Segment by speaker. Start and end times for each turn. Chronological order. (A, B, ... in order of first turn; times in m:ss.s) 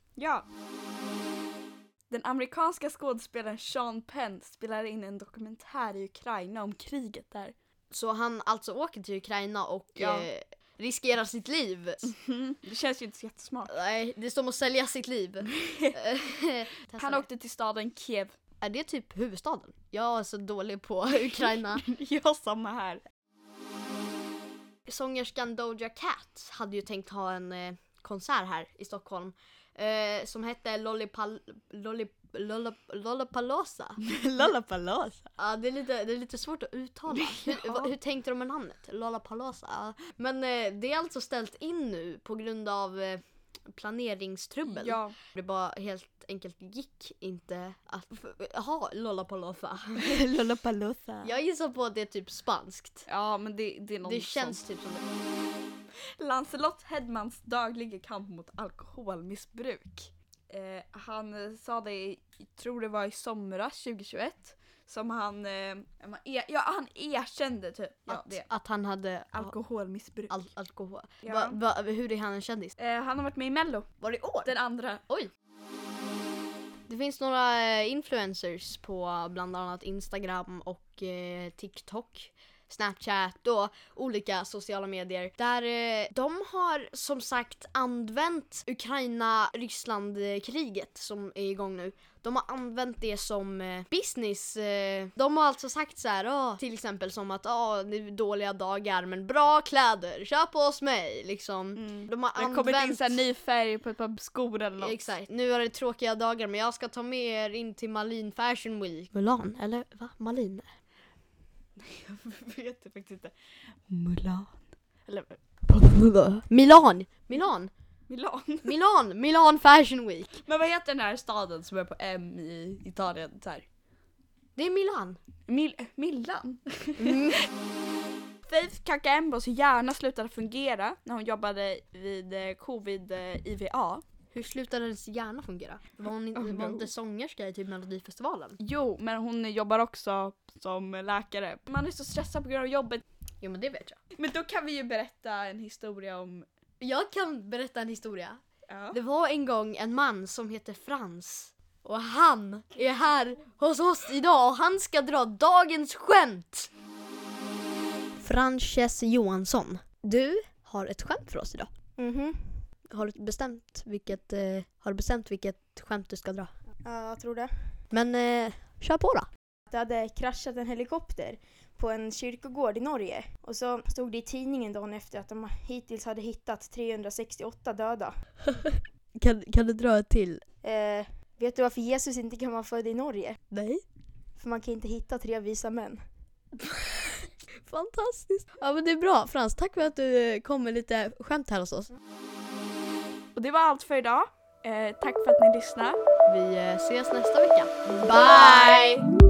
0:00.2-0:00.4 A
0:02.1-0:07.5 A
0:07.9-0:12.1 B
0:10.0-0:10.3 A
0:12.1-0:13.7 A
0:13.7-0:17.2 B
0:15.5-0:16.0 A
0:17.0-0:18.3 A
0:18.6-0:21.8 B
0:21.5-0:23.0 A
0:24.9-0:34.0 B
0:34.0-0:35.3 A
0:35.4-0:50.2 B
0:37.1-0:37.9 A
0:44.7-0:45.1 A
0:50.0-0:51.3 A
0:51.2-0:53.1 B
0:53.1-0:54.6 A
0:54.0-0:55.0 B
0:56.2-1:08.5 A
1:08.1-1:09.5 B
1:09.3-1:10.4 A
1:10.3-1:12.7 B
1:11.2-1:11.6 A
1:12.8-1:15.1 A
1:14.0-1:14.5 B
1:16.9-1:43.2 B
1:41.8-1:45.1 A
1:44.8-1:50.7 B
1:51.8-1:53.3 A
1:53.9-1:55.4 A
1:55.7-1:57.7 B
1:58.1-1:58.7 A
1:58.6-2:00.4 B
2:00.4-2:03.6 A
2:04.6-2:05.2 B
2:05.5-2:07.3 A
2:07.0-2:07.4 B
2:08.5-2:14.0 A
2:14.3-2:18.6 B
2:16.3-2:16.9 A
2:18.6-2:23.0 A
2:23.4-2:24.0 B
2:24.2-2:26.5 A
2:26.8-2:36.7 B
2:28.7-2:29.0 A
2:38.2-2:41.7 B
2:42.0-2:42.6 C
2:42.9-2:46.5 B
2:46.8-2:47.5 C
2:47.9-2:49.3 B
2:49.7-2:58.1 C
2:58.5-3:00.4 B
3:00.6-3:03.4 C
3:03.5-3:03.8 B
3:04.4-3:06.0 C
3:06.6-3:11.9 B
3:13.3-3:16.0 A
3:16.2-3:19.0 B
3:18.0-3:18.9 A